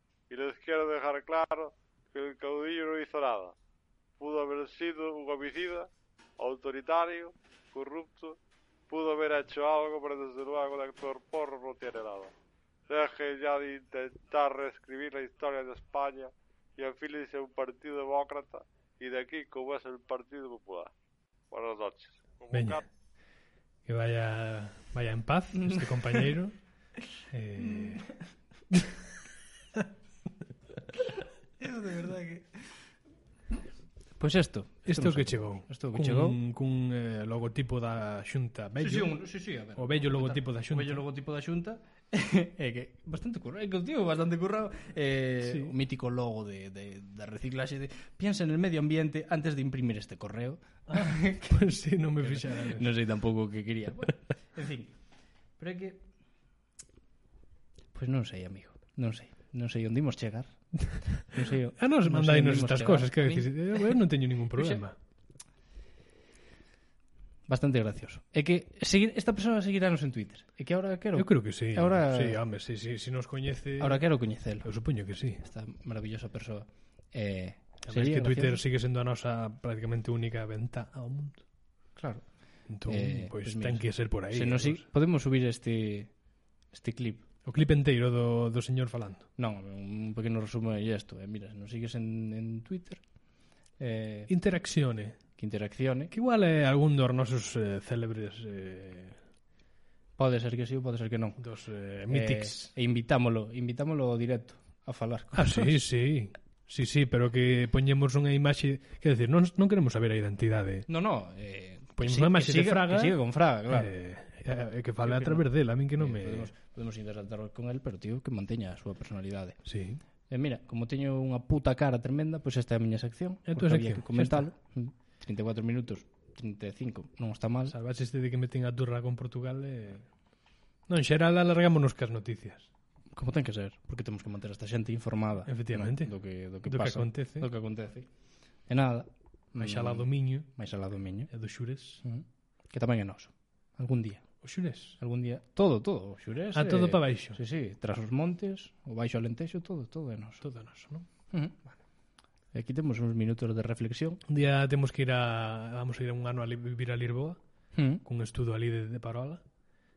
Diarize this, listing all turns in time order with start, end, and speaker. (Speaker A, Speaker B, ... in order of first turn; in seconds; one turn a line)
Speaker A: 0.3-3.5
Speaker A: 4.2-8.4
Speaker A: 8.9-12.3
Speaker A: 12.9-20.9
Speaker A: 21.5-22.9
Speaker B: 22.5-22.8
Speaker B: 23.9-26.6
Speaker C: 25.6-26.3
Speaker B: 27.3-28.1
Speaker C: 27.6-28.2
Speaker B: 28.7-29.0
Speaker C: 31.6-32.7
Speaker C: 34.2-36.4
Speaker B: 34.9-39.2
Speaker C: 38.8-51.7
Speaker B: 39.8-41.0
Speaker B: 45.4-45.7
Speaker B: 50.9-52.9
Speaker C: 52.2-54.9
Speaker C: 55.6-56.0
Speaker C: 57.9-64.0
Speaker B: 61.8-65.0
Speaker C: 64.6-64.8
Speaker C: 67.5-72.4
Speaker B: 71.2-74.0
Speaker C: 73.8-74.7
Speaker B: 74.6-75.4
Speaker C: 75.4-78.6
Speaker B: 77.8-81.4
Speaker C: 82.0-82.3
Speaker B: 82.7-84.8
Speaker C: 82.8-86.1
Speaker C: 86.7-87.2
Speaker B: 87.5-89.3
Speaker C: 89.4-93.0
Speaker C: 93.8-94.3
Speaker B: 94.3-95.2
Speaker C: 95.4-96.1
Speaker B: 96.1-99.2
Speaker C: 100.2-101.4
Speaker B: 101.4-102.7
Speaker C: 102.1-105.8
Speaker B: 105.3-110.9
Speaker C: 110.9-113.9
Speaker B: 112.0-116.5
Speaker C: 115.0-115.5
Speaker C: 116.0-119.6
Speaker B: 119.7-120.0
Speaker C: 120.3-127.8
Speaker B: 123.5-124.5
Speaker B: 127.7-130.1
Speaker B: 130.9-132.7
Speaker C: 133.1-138.1
Speaker B: 135.5-136.1
Speaker B: 136.7-137.5
Speaker C: 138.7-141.3
Speaker B: 139.6-140.5
Speaker B: 141.3-142.0
Speaker C: 142.0-144.2
Speaker B: 144.4-145.0
Speaker C: 145.0-150.4
Speaker B: 146.5-147.4
Speaker B: 150.4-151.1
Speaker C: 151.3-151.7
Speaker C: 152.5-154.2
Speaker B: 154.3-157.4
Speaker C: 157.8-158.0
Speaker B: 158.0-159.4